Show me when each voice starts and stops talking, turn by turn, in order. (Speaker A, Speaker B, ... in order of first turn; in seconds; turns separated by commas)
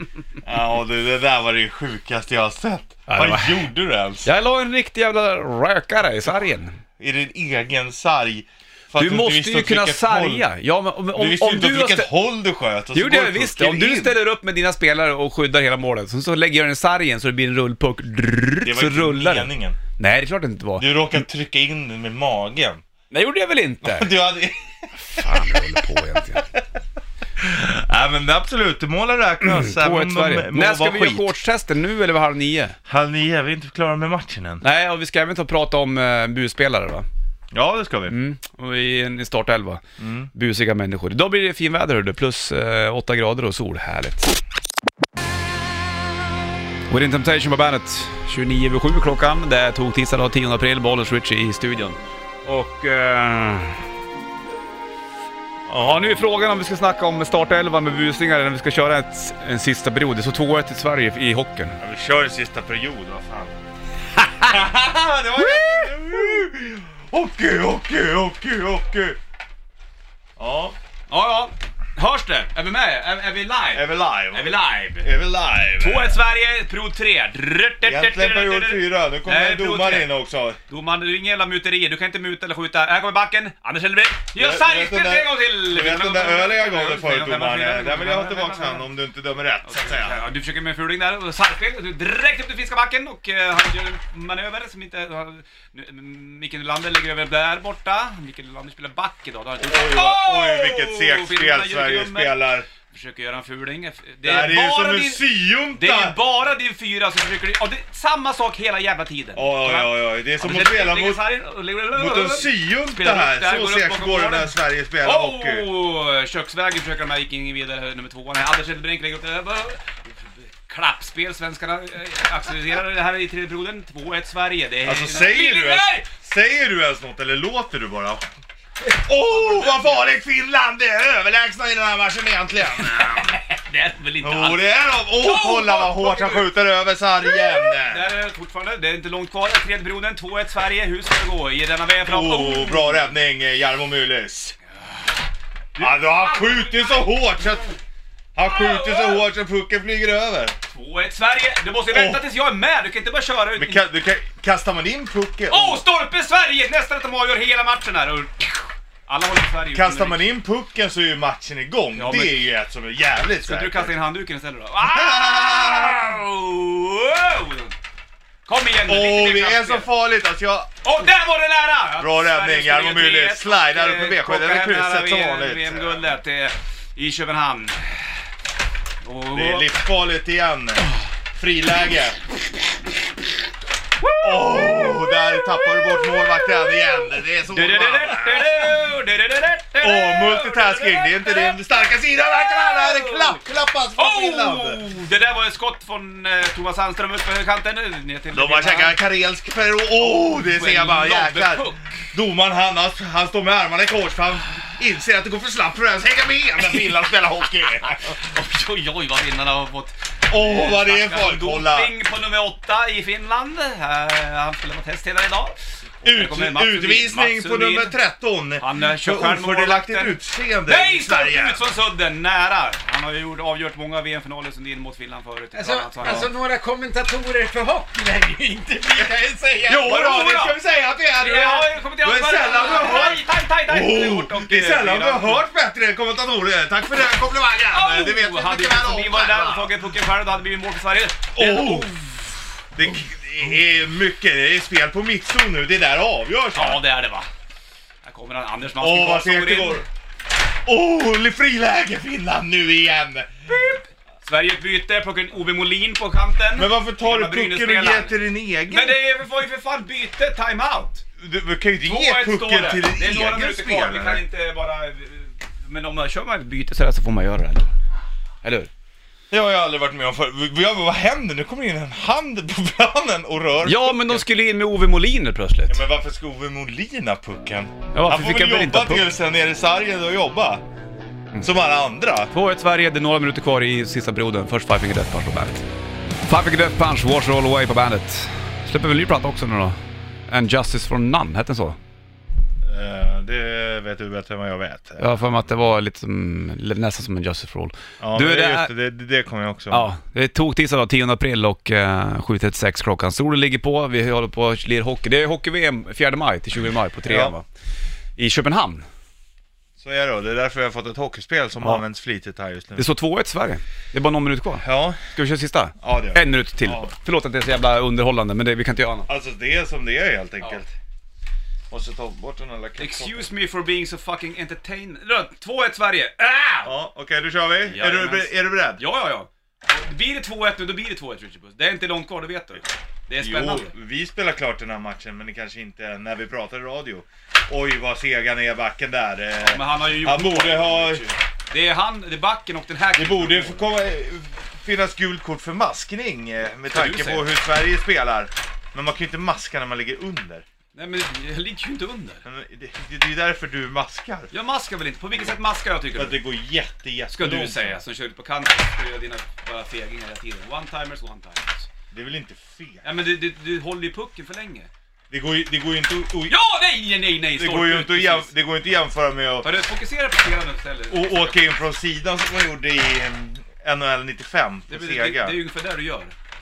Speaker A: 0.4-4.3, Speaker B: 3.1-3.6, Speaker B: 4.2-6.8, Speaker A: 7.0-10.4, Speaker B: 8.9-12.1, Speaker A: 11.1-14.2, Speaker B: 12.9-20.9, Speaker A: 18.6-19.8, Speaker A: 20.8-22.8, Speaker B: 23.1-24.1, Speaker A: 23.8-26.6, Speaker B: 25.0-26.4, Speaker A: 27.4-31.3, Speaker B: 29.4-32.8, Speaker A: 32.9-34.6, Speaker B: 34.6-37.1, Speaker A: 37.5-38.1, Speaker B: 38.1-39.8, Speaker A: 40.0-40.3, Speaker B: 40.3-44.3, Speaker B: 46.9-53.9, Speaker A: 55.7-56.1, Speaker B: 55.8-61.8, Speaker A: 61.8-63.5, Speaker A: 64.4-69.2, Speaker B: 65.4-66.4, Speaker A: 70.4-70.8, Speaker B: 71.1-75.1, Speaker A: 73.7-76.2, Speaker B: 75.8-80.1, Speaker A: 77.8-80.6, Speaker B: 80.7-88.9, Speaker A: 84.3-90.2, Speaker B: 89.6-105.2, Speaker A: 99.6-102.7, Speaker A: 104.2-106.2, Speaker B: 105.7-126.1, Speaker A: 109.3-111.2, Speaker A: 111.9-115.7, Speaker A: 124.8-128.3, Speaker A: 128.9-133.3, Speaker B: 129.2-130.1, Speaker B: 132.7-136.5, Speaker A: 134.2-138.1, Speaker B: 137.2-143.1, Speaker A: 142.0-144.6, Speaker B: 145.7-147.1, Speaker A: 145.8-147.7, Speaker A: 148.3-150.6, Speaker B: 148.4-149.3, Speaker B: 150.7-153.8, Speaker A: 151.9-152.2, Speaker A: 153.6-155.8, Speaker B: 155.5-160.2, Speaker A: 159.7-163.9, Speaker B: 161.9-162.4, Speaker B: 163.4-167.7, Speaker A: 164.8-166.1, Speaker B: 168.4-169.9, Speaker A: 168.8-170.8, Speaker B: 170.8-178.1, Speaker A: 172.0-176.1, Speaker B: 179.0-179.7, Speaker A: 179.3-182.2, Speaker B: 184.0-193.4, Speaker A: 184.2-188.8, Speaker A: 189.8-194.8, Speaker B: 194.0-199.0, Speaker A: 198.3-208.2, Speaker B: 200.0-202.0, Speaker B: 207.8-217.9, Speaker A: 210.3-211.9, Speaker A: 216.0-221.6, Speaker B: 218.6-226.3, Speaker C: 225.5-229.1, Speaker A: 226.0-226.3, Speaker A: 228.8-239.7, Speaker B: 229.7-230.6, Speaker B: 231.2-235.4, Speaker B: 237.7-242.3, Speaker A: 241.3-241.9, Speaker A: 242.8-246.8, Speaker B: 246.5-247.3, Speaker B: 248.0-249.8, Speaker A: 248.8-249.8, Speaker A: 250.7-253.8, Speaker B: 253.5-258.1, Speaker A: 256.6-259.0, Speaker B: 258.7-261.0, Speaker A: 261.2-264.2, Speaker B: 261.8-267.7, Speaker B: 268.4-268.7, Speaker A: 269.3-274.3, Speaker B: 273.6-275.8, Speaker A: 275.7-280.6, Speaker B: 277.9-279.1, Speaker A: 281.4-282.3, Speaker B: 282.3-285.6, Speaker B: 286.2-291.8, Speaker A: 292.6-295.2, Speaker B: 295.0-298.7, Speaker A: 298.0-299.9, Speaker B: 299.7-307.4, Speaker A: 307.0-307.4, Speaker B: 308.2-308.9, Speaker A: 309.8-312.9, Speaker B: 312.7-319.1, Speaker A: 314.6-315.0, Speaker A: 315.8-316.9, Speaker A: 319.1-320.7, Speaker A: 321.7-323.3, Speaker B: 322.8-326.7, Speaker A: 326.6-328.8, Speaker B: 327.7-333.7, Speaker A: 333.2-341.0, Speaker B: 339.4-343.7, Speaker A: 342.9-350.4, Speaker B: 346.7-347.3, Speaker B: 350.7-352.2, Speaker A: 352.2-354.3, Speaker B: 354.3-356.2, Speaker A: 355.9-357.8, Speaker B: 357.1-361.7, Speaker A: 361.9-362.8, Speaker B: 362.8-364.7, Speaker A: 365.1-366.4, Speaker B: 366.3-368.3, Speaker A: 367.3-369.4, Speaker B: 369.4-371.6, Speaker A: 370.9-375.4, Speaker B: 374.7-376.1